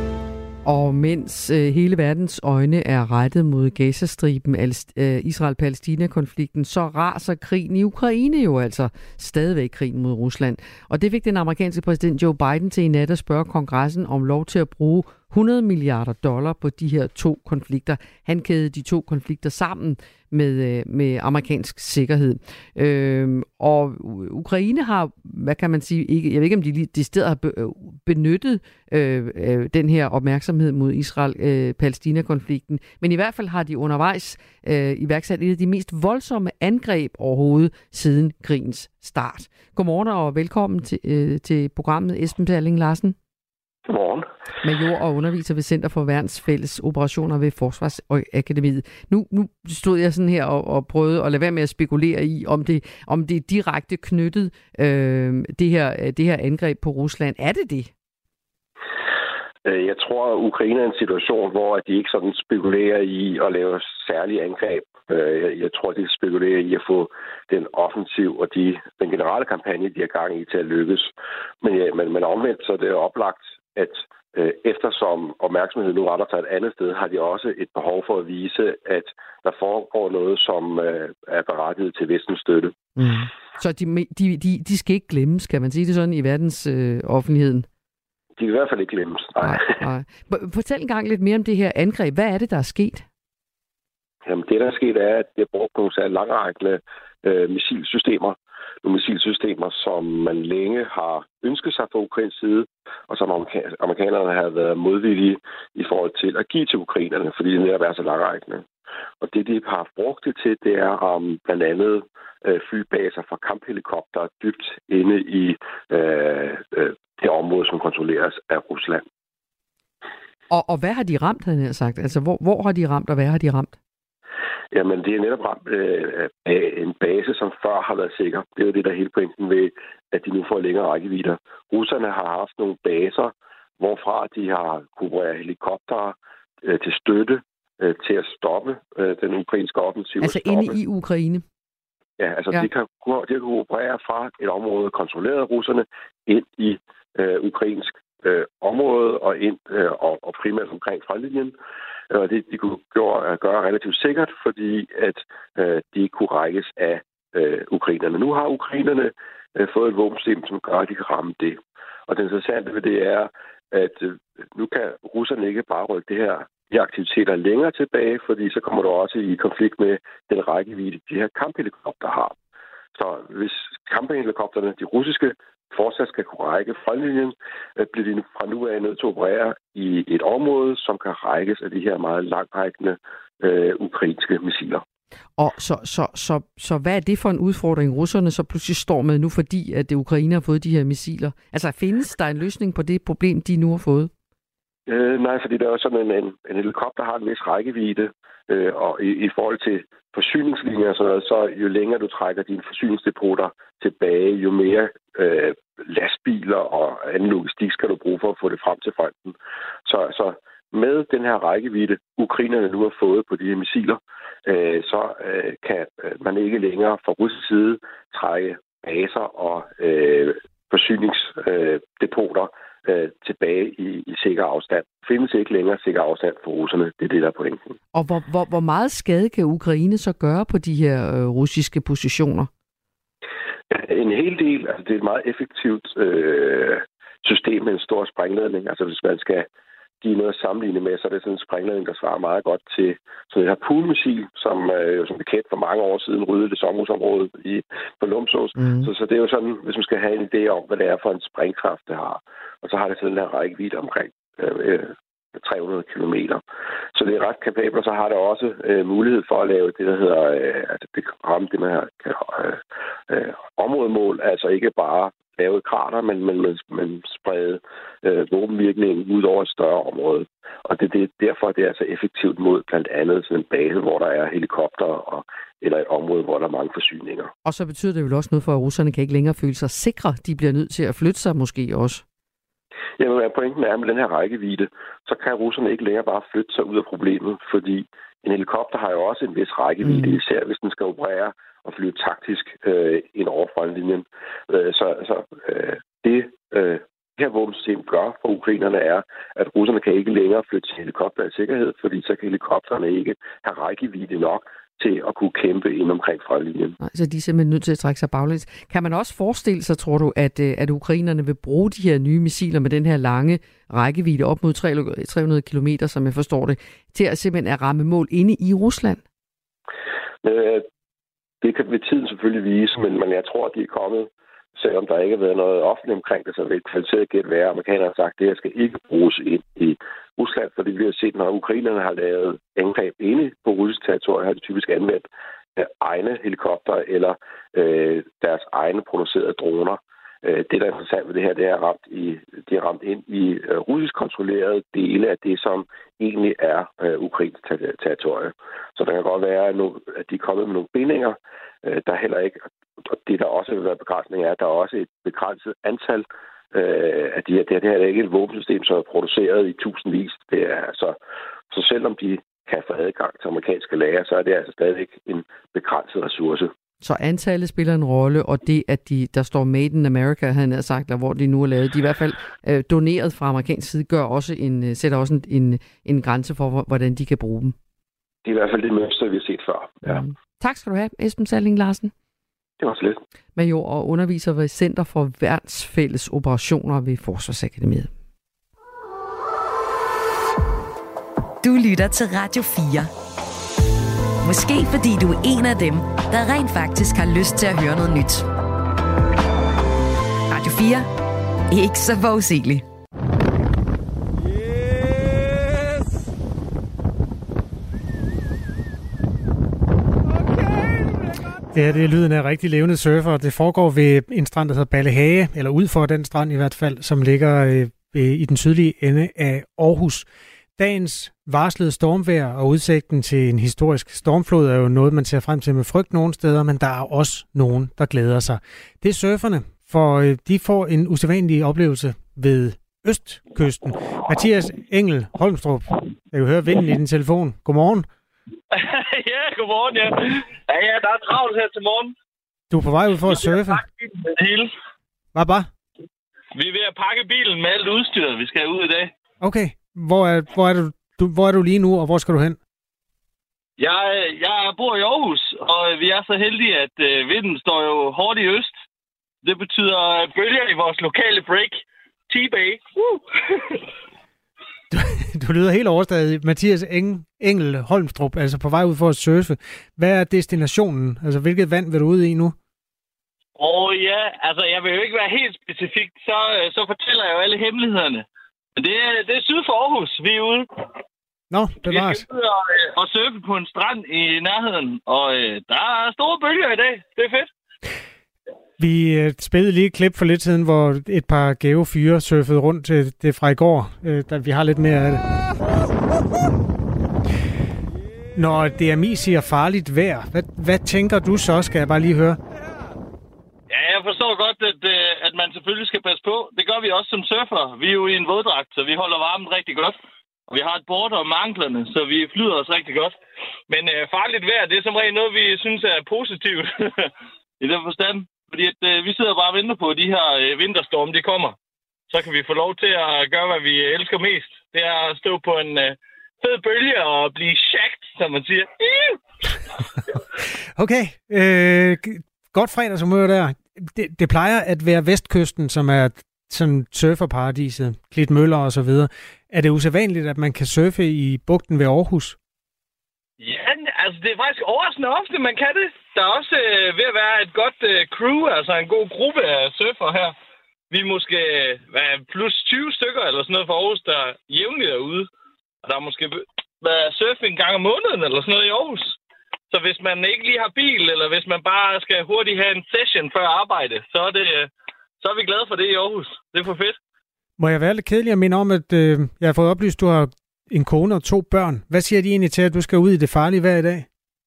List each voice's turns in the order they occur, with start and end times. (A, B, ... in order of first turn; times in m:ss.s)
0:00.6-0:43.2 A
0:43.9-0:44.3 B
0:44.6-0:57.9 A
0:59.6-1:22.8 B
1:23.0-1:27.7 A
1:28.4-1:29.7 B
1:29.4-1:33.1 A
1:34.3-1:48.7 B
1:49.2-1:59.0 B
2:00.5-2:03.8 A
2:04.7-2:20.8 B
2:20.2-2:21.4 A
2:22.2-2:31.6 B
2:32.1-2:52.4 B
2:53.0-3:04.8 B
3:05.4-3:14.1 A
3:14.9-3:47.8 B
3:47.9-3:52.5 A
3:53.7-3:59.5 B
4:00.0-4:16.4 B
4:08.6-4:08.9 A
4:17.0-4:37.3 B
4:37.4-4:42.0 A
4:43.0-5:06.8 B
4:49.8-4:50.2 A
5:06.8-5:19.0 A
5:20.2-5:20.6 B
5:21.4-6:01.0 B
6:01.5-6:06.5 B
6:06.8-6:17.6 A
6:18.2-6:20.0 B
6:19.8-6:21.9 A
6:22.6-6:23.0 B
6:23.4-6:27.9 A
6:31.4-6:32.9 C
6:34.2-6:38.3 C
6:40.3-6:40.9 C
6:41.5-6:42.7 C
6:51.5-7:17.9 D
7:18.5-7:21.9 E
7:22.5-7:23.6 D
7:23.1-7:24.5 E
7:25.2-7:25.5 D
7:26.4-7:28.9 E
7:29.2-7:32.4 D
7:33.6-7:38.5 E
7:39.2-7:43.6 E
7:44.7-7:52.4 D
7:53.4-7:58.0 E
7:58.6-8:00.5 E
8:01.3-8:02.0 D
8:01.6-8:07.3 E
8:08.6-8:15.0 D
8:18.2-8:22.2 D
8:23.5-8:29.8 E
8:30.3-8:33.0 E
8:33.5-8:41.4 E
8:41.9-8:49.0 E
8:50.6-9:02.2 D
9:03.2-9:10.1 E
9:10.7-9:15.1 E
9:15.6-9:19.0 E
9:19.5-9:26.8 E
9:27.4-9:33.9 D